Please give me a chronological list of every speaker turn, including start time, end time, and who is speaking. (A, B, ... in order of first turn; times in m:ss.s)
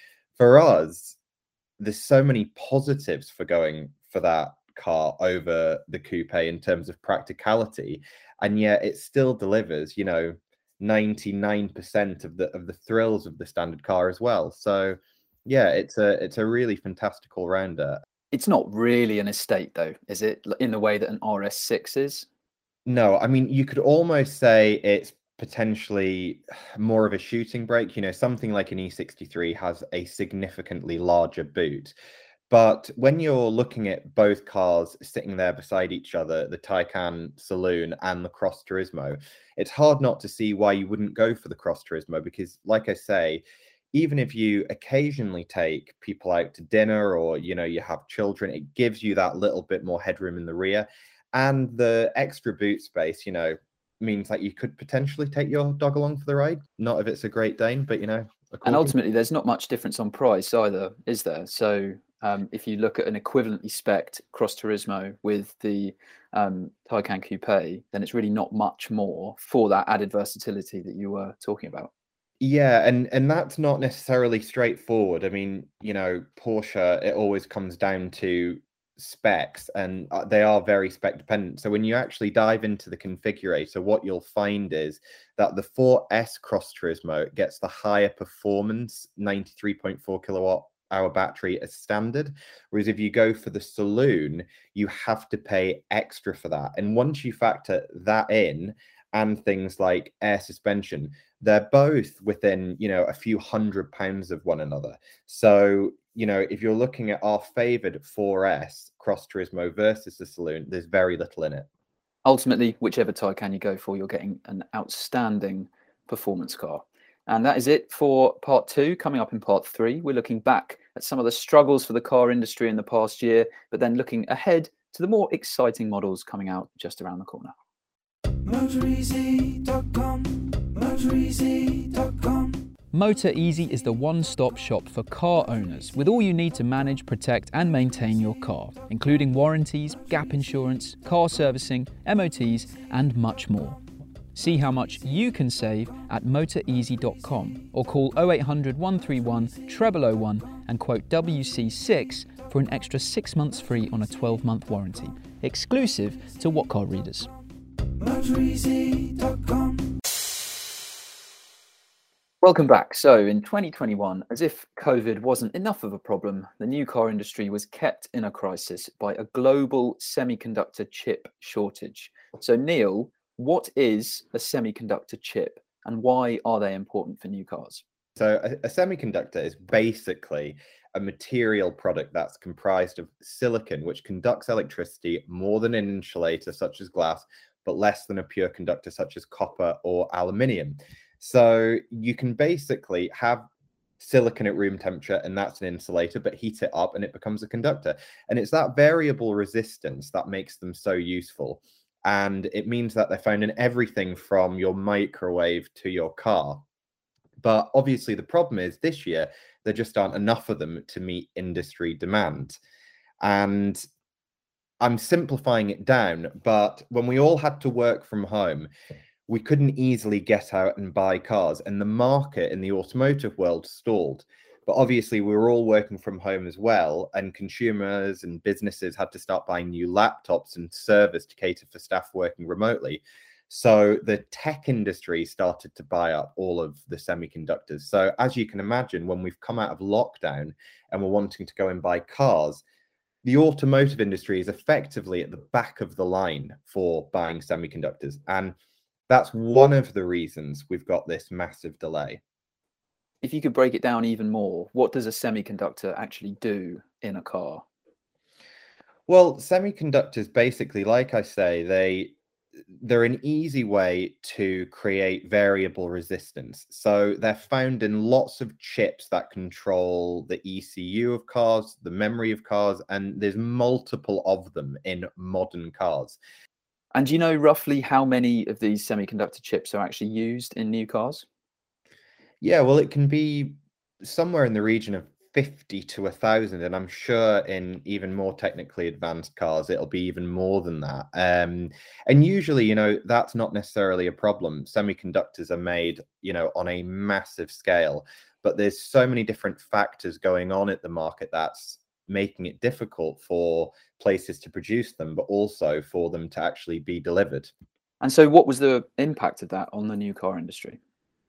0:00.4-0:01.2 A
0:01.8-0:18.0 A
0:18.3-0:22.3 B
0:22.9-0:31.9 A
0:32.5-0:43.4 A
0:43.9-0:58.9 A
0:58.6-1:11.9 B
1:12.4-1:51.7 A
1:52.2-2:07.5 B
2:12.9-2:23.8 C
2:24.3-2:37.3 C
2:42.4-2:57.8 B
2:58.2-3:13.5 A
3:14.0-3:26.6 A
3:27.4-3:32.6 A
3:33.2-3:33.8 A
3:34.8-3:38.7 A
3:39.3-4:02.6 A
4:03.2-4:08.6 A
4:09.1-4:12.2 A
4:13.2-4:17.6 B
4:19.1-4:22.1 A
4:22.8-4:36.2 A
4:36.9-4:41.3 B
4:42.4-5:07.5 A
5:08.0-5:10.8 B